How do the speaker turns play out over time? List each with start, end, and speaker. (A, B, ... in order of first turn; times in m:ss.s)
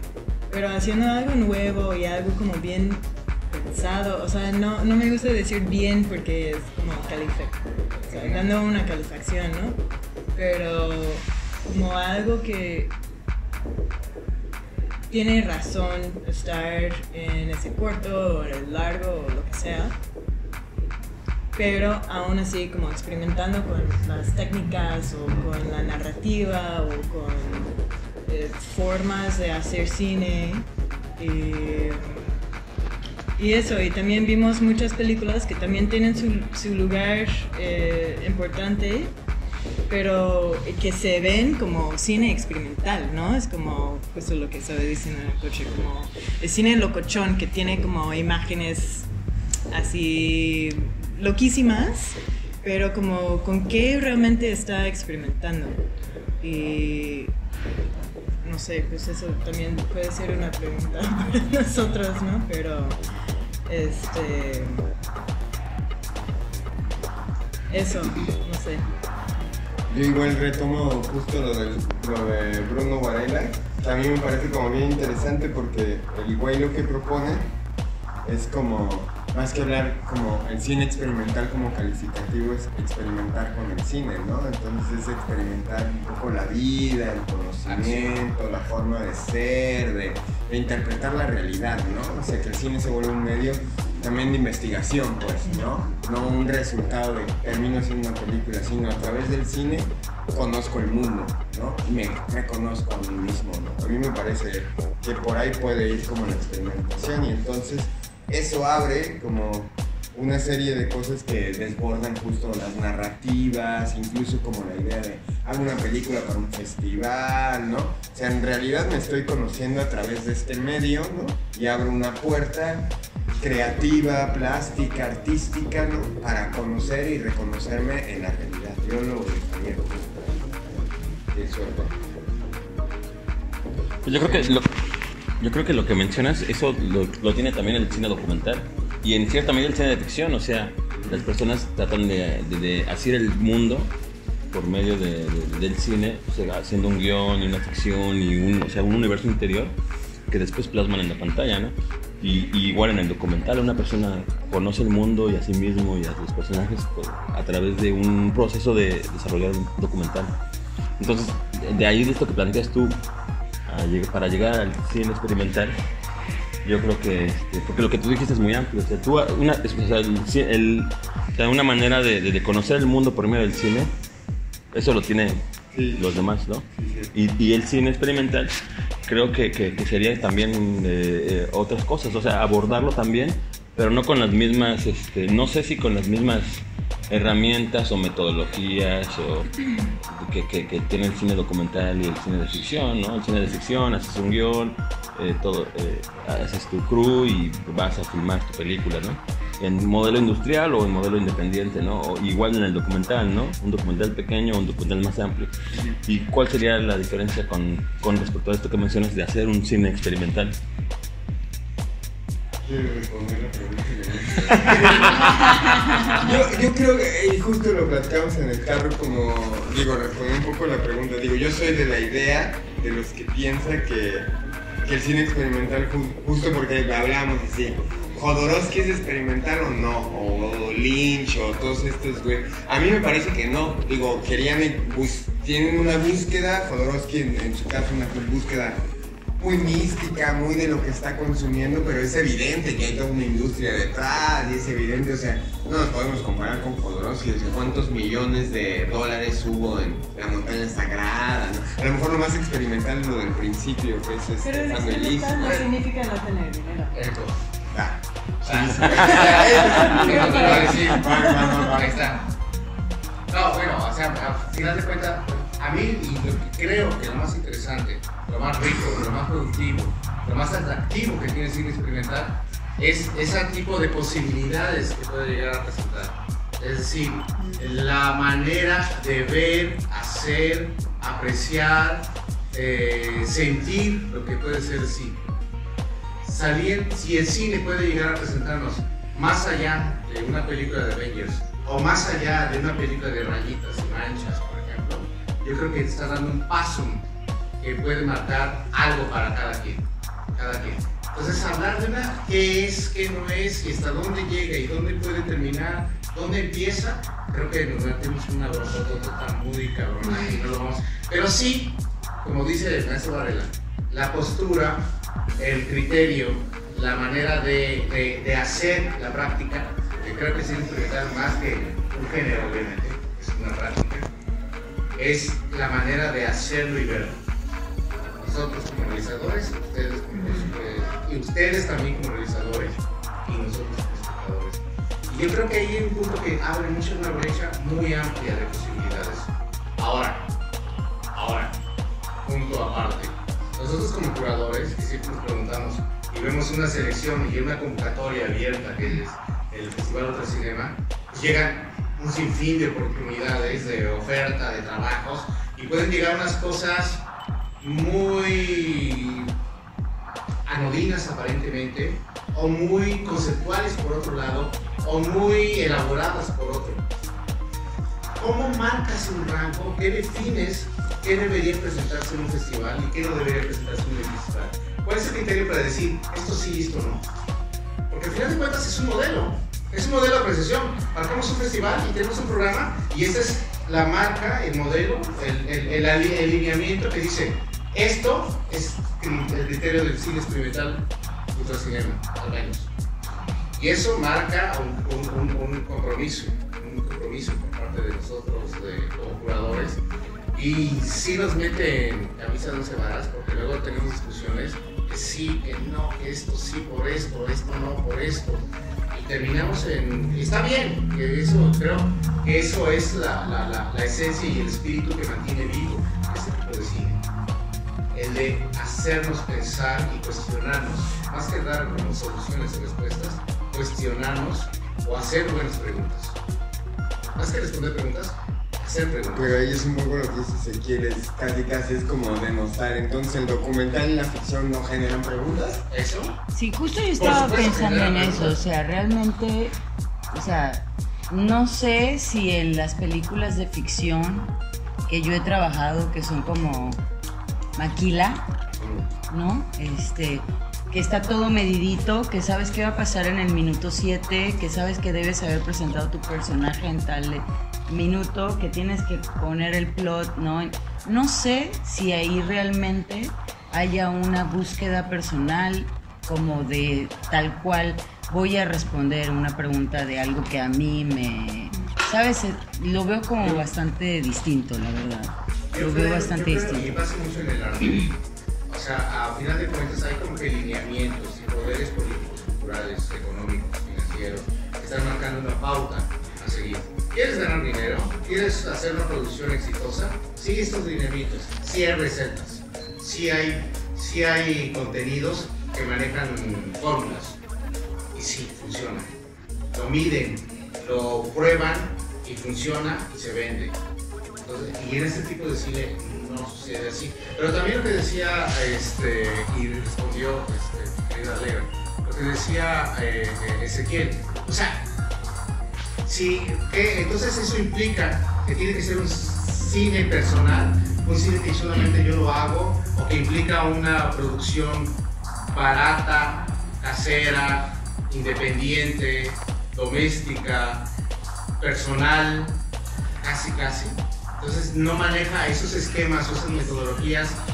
0:00.5-0:09.8 A
0:08.1-0:08.4 B
0:10.3-0:12.9 A
0:15.1-0:20.0 A
0:21.5-0:27.7 A
0:25.3-0:25.5 C
0:28.2-0:30.6 A
0:31.2-0:32.3 A
0:33.4-0:39.1 A
0:39.9-0:49.1 A
0:49.7-0:55.8 A
0:56.4-0:57.3 A
0:58.4-1:03.0 A
1:03.7-1:04.8 A
1:07.7-1:08.8 A
1:09.9-1:17.5 C
1:18.2-2:10.6 C
1:27.6-1:28.1 B
2:11.2-2:11.9 C
2:14.0-2:14.7 D
2:14.2-2:14.5 C
2:15.4-2:23.9 D
2:24.5-2:29.7 D
2:30.3-2:40.3 D
2:41.0-2:43.0 D
2:43.7-2:45.7 D
2:46.6-2:53.9 D
2:54.7-2:55.4 D
2:55.7-2:56.2 C
2:56.0-2:58.5 D
2:56.7-2:57.1 C
2:59.1-3:09.5 D
3:10.1-3:25.5 D
3:26.1-3:30.6 D
3:32.6-3:58.8 C
3:59.4-4:15.6 C
4:14.4-4:16.9 A
4:15.4-4:15.7 B
4:16.9-4:17.4 B
4:17.7-4:22.0 C
4:18.4-4:22.3 B
4:19.9-4:20.7 A
4:23.3-4:45.3 B
4:46.2-4:57.0 B
4:57.6-5:24.0 B
5:25.0-5:27.2 B
5:28.2-5:40.3 B
5:41.1-5:41.5 B
5:42.2-5:57.0 B
5:57.6-5:59.3 B
6:00.4-6:06.8 B
6:08.2-6:17.0 B
6:17.9-6:32.7 B
6:33.6-6:39.8 B
6:40.3-6:57.0 B
6:57.9-7:06.2 B
7:07.2-7:09.4 B
7:09.1-7:15.6 C
7:15.7-7:16.2 B
7:16.3-7:19.6 E
7:17.0-7:18.4 B
7:20.1-7:24.3 E
7:24.9-7:26.8 E
7:27.6-7:28.2 E
7:28.6-7:28.8 C
7:29.1-7:56.7 E
7:53.2-7:53.5 B
7:55.5-8:17.2 B
8:17.9-8:18.9 B
8:19.5-8:23.5 B
8:24.2-8:34.6 B
8:35.8-8:44.8 B
8:45.3-8:50.7 B
8:51.4-8:52.4 B
8:53.0-8:57.2 B